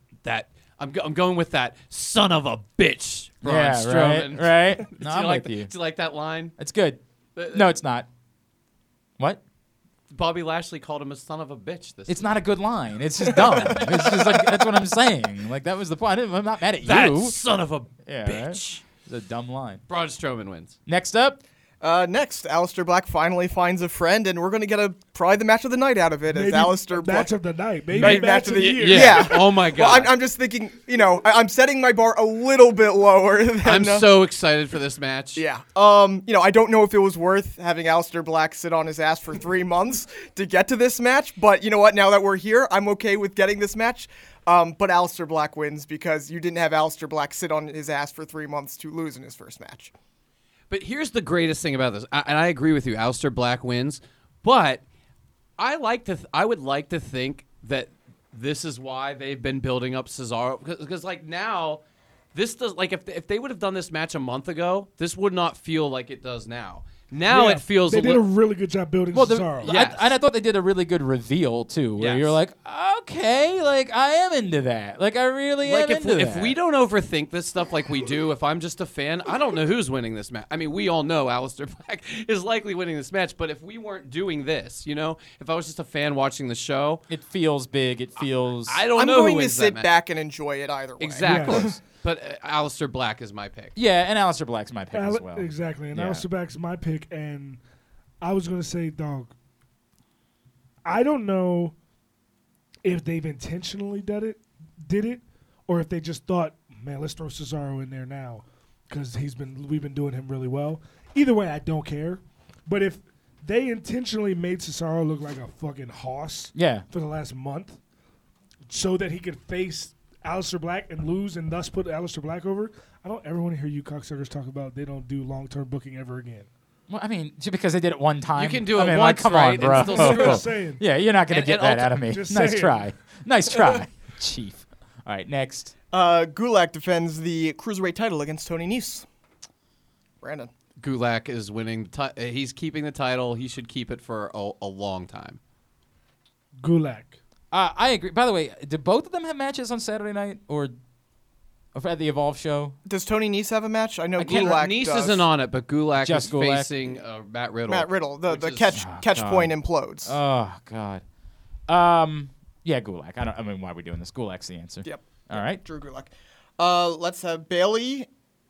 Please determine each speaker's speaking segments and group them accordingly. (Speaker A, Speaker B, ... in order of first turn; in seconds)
Speaker A: 0.2-6.5, 7.3-7.7, 10.1-12.3, 13.6-14.4, 16.8-18.9, 19.9-20.8, 28.0-30.1, 33.6-35.4, 50.7-54.8, 55.6-61.8, 62.3-68.2, 69.6-70.1, 72.0-72.4, 75.6-87.0, 88.7-89.9, 91.0-93.8, 128.4-130.5, 131.3-132.0, 140.8-145.4, 154.2-158.7
Speaker B: 3.4-5.7, 6.6-7.0, 7.5-8.1, 12.1-17.4, 18.1-19.8, 20.9-21.4, 69.1-76.6, 87.1-88.8, 93.8-96.2, 116.5-116.9, 126.9-135.7, 147.5-150.7, 151.7-152.8, 154.2-154.6, 156.0-156.7, 158.7-161.0, 161.7-165.6
Speaker C: 13.3-13.8, 21.8-27.3, 28.0-34.1, 35.4-49.9, 89.0-91.8, 135.9-139.1, 140.2-140.5, 152.9-155.2, 157.7-160.2, 164.8-168.1
Speaker D: 26.3-29.3, 67.3-69.7, 91.2-91.7, 94.9-97.6, 98.2-99.3, 100.8-101.7, 102.8-117.8, 118.7-126.5, 129.7-130.8, 132.1-132.8, 146.6-147.2